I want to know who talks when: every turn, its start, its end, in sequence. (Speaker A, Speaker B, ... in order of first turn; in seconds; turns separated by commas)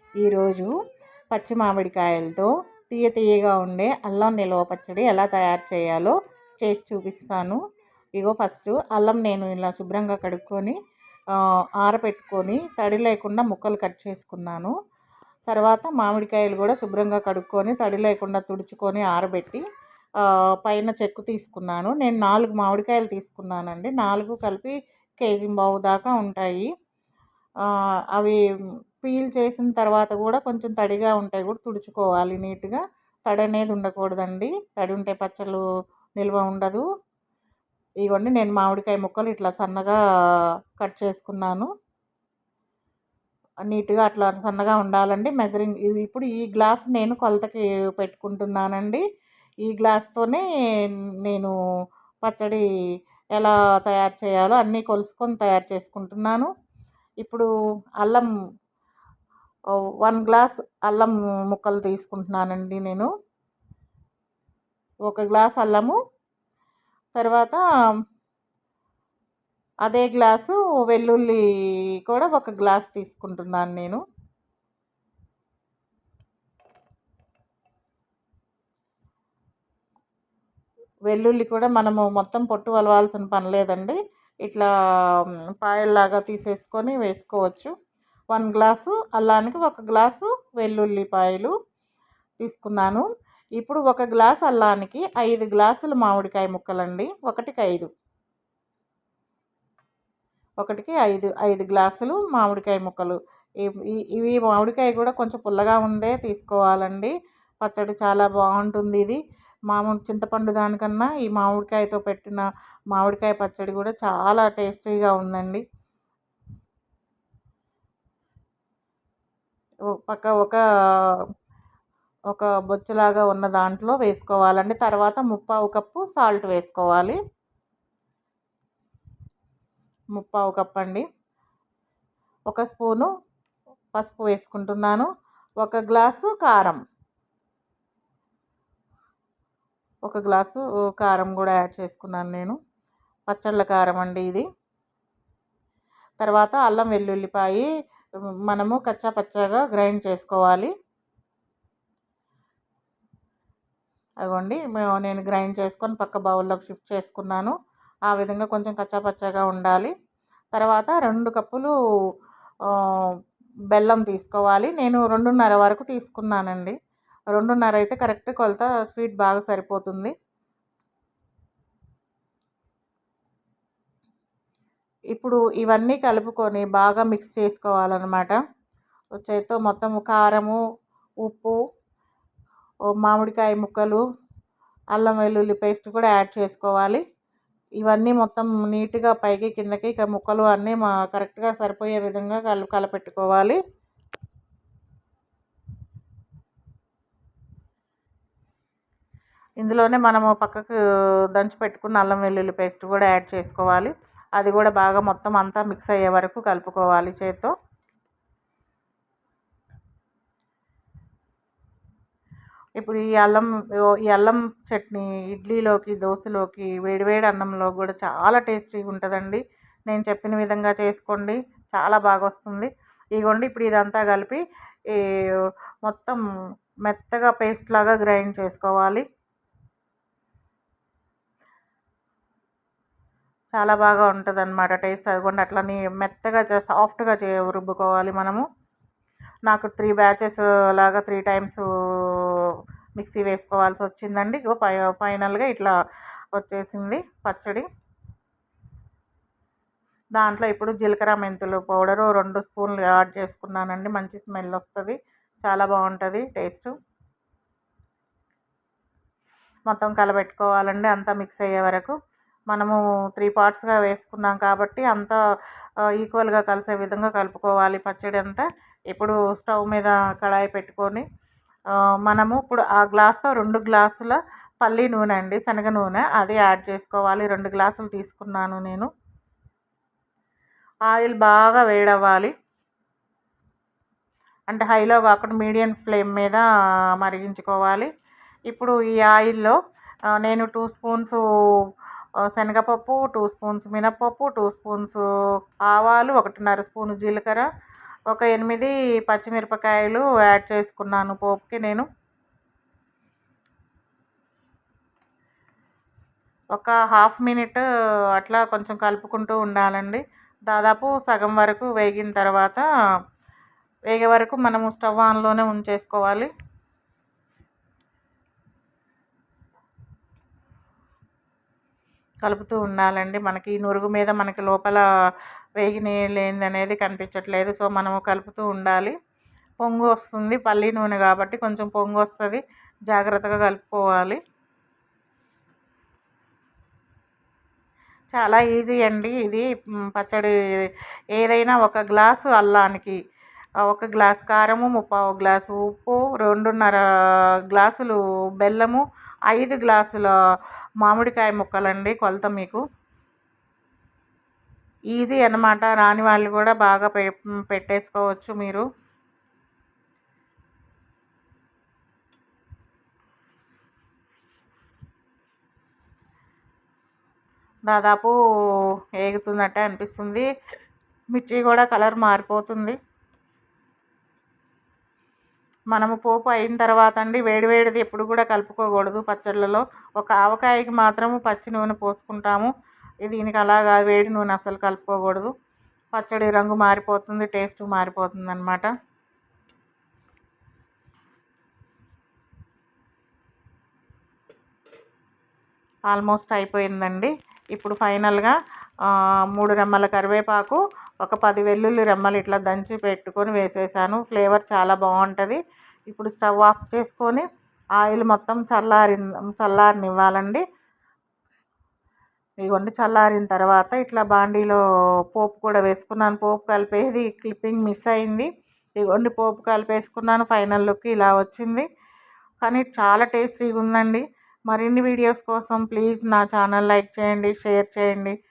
Speaker A: 0.2-0.7, Speaker A: 1.3-7.6, Speaker A: 8.2-10.8, Speaker A: 11.3-14.7, Speaker A: 15.5-19.6, Speaker A: 20.2-26.7, Speaker A: 28.1-28.4, Speaker A: 29.0-35.6, Speaker A: 36.2-36.8, Speaker A: 38.0-40.0, Speaker A: 40.8-41.7, Speaker A: 43.7-49.0, Speaker A: 49.6-50.4, Speaker A: 51.2-51.5, Speaker A: 52.2-52.6, Speaker A: 53.4-56.5, Speaker A: 57.2-57.5, Speaker A: 58.0-58.3, Speaker A: 60.0-63.1, Speaker A: 65.1-66.0, Speaker A: 67.1-67.6, Speaker A: 69.8-71.4, Speaker A: 72.0-74.0, Speaker A: 81.1-87.7, Speaker A: 88.3-91.5, Speaker A: 92.4-93.0, Speaker A: 93.6-97.9, Speaker A: 100.6-115.6, Speaker A: 119.9-121.2, Speaker A: 122.3-127.2, Speaker A: 130.1-131.0, Speaker A: 132.5-133.1, Speaker A: 133.9-136.8, Speaker A: 140.0-142.6, Speaker A: 143.3-144.5, Speaker A: 146.2-147.7, Speaker A: 148.4-150.7, Speaker A: 154.2-157.5, Speaker A: 158.1-159.9, Speaker A: 160.5-161.7, Speaker A: 162.7-163.1, Speaker A: 163.7-166.7, Speaker A: 167.3-170.1, Speaker A: 175.1-178.4, Speaker A: 179.2-180.6, Speaker A: 181.2-181.6, Speaker A: 183.0-184.0, Speaker A: 184.9-187.0, Speaker A: 187.8-193.6, Speaker A: 199.6-200.8, Speaker A: 201.3-207.5, Speaker A: 212.8-226.2, Speaker A: 226.8-229.0, Speaker A: 233.5-238.4, Speaker A: 239.5-245.7, Speaker A: 246.3-247.7, Speaker A: 250.2-256.7, Speaker A: 259.7-261.9, Speaker A: 262.5-265.2, Speaker A: 265.9-271.0, Speaker A: 272.0-278.9, Speaker A: 280.9-282.3, Speaker A: 284.5-286.4, Speaker A: 287.0-287.9, Speaker A: 288.5-289.6, Speaker A: 290.2-291.2, Speaker A: 292.3-295.0, Speaker A: 295.7-297.5, Speaker A: 298.1-301.9, Speaker A: 306.5-307.6, Speaker A: 308.1-312.6, Speaker A: 313.9-316.3, Speaker A: 322.2-324.8, Speaker A: 325.6-328.9, Speaker A: 329.6-334.2, Speaker A: 338.1-343.0, Speaker A: 343.6-346.8, Speaker A: 347.5-350.1, Speaker A: 350.8-352.6, Speaker A: 354.9-358.6, Speaker A: 367.7-368.1, Speaker A: 369.0-370.3, Speaker A: 371.1-372.8, Speaker A: 375.7-382.5, Speaker A: 383.0-385.3, Speaker A: 385.9-388.7, Speaker A: 395.9-407.2, Speaker A: 407.8-410.4, Speaker A: 412.4-414.6, Speaker A: 415.1-421.7, Speaker A: 422.4-428.1